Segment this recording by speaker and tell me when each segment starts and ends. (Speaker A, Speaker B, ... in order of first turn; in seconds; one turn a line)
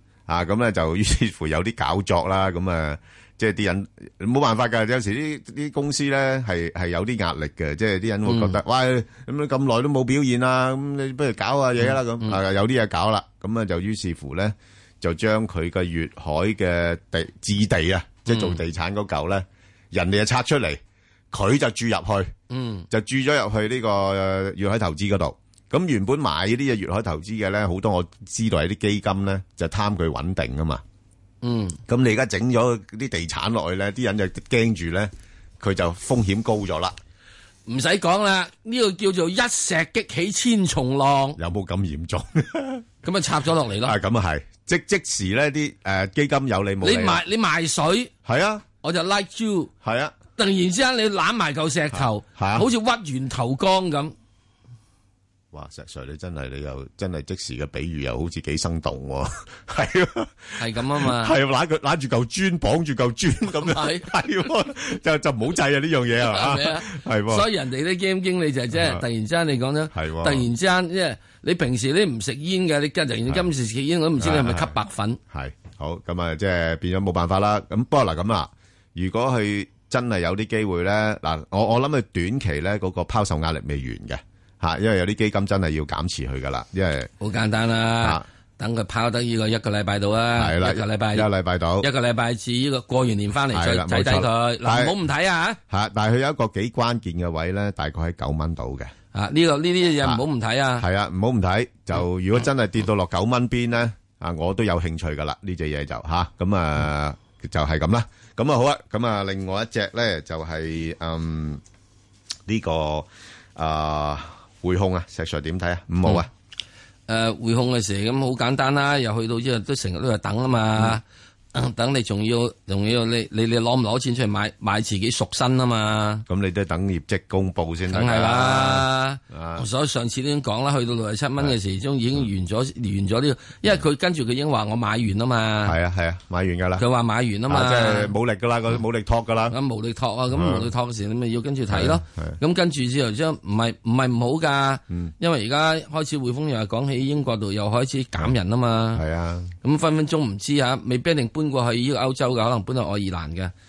Speaker A: 0.3-20.8
Speaker B: 8.3-8.6
Speaker B: 11.8-12.4
Speaker B: 18.3-18.6
Speaker A: 21.3-22.3
Speaker B: 22.5-22.9
Speaker A: 22.9-30.8
Speaker B: 31.4-31.8
Speaker A: 31.9-37.0
Speaker B: 37.7-41.4
Speaker A: 41.4-42.9
Speaker B: 43.0-44.0
Speaker A: 43.8-47.2
Speaker B: 46.8-48.1
Speaker A: 48.2-48.6
Speaker B: 48.8-49.7
Speaker A: 49.8-50.1
Speaker B: 50.4-54.1
Speaker A: 51.9-52.7
Speaker A: 55.5-67.5
Speaker B: 60.6-61.3
Speaker B: 63.6-64.1
Speaker B: 66.2-75.2
Speaker A: 68.7-69.0
Speaker A: 69.9-70.5
Speaker A: 74.2-74.8
Speaker A: 75.3-87.1
Speaker B: 87.2-91.3
Speaker A: 90.4-91.9
Speaker B: 91.8-95.6
Speaker A: 93.5-95.0
Speaker A: 95.7-98.9
Speaker B: 99.1-100.9
Speaker A: 100.8-111.6
Speaker A: 112.5-116.3
Speaker B: 117.1-121.0
Speaker B: 121.5-126.3
Speaker A: 126.3-129.7
Speaker B: 127.9-135.8
Speaker A: 135.6-136.8
Speaker B: 136.8-138.1
Speaker A: 137.5-139.6
Speaker B: 139.5-149.0
Speaker A: 140.3-140.7
Speaker A: 141.7-142.4
Speaker A: 148.9-149.6
Speaker B: 149.6-153.5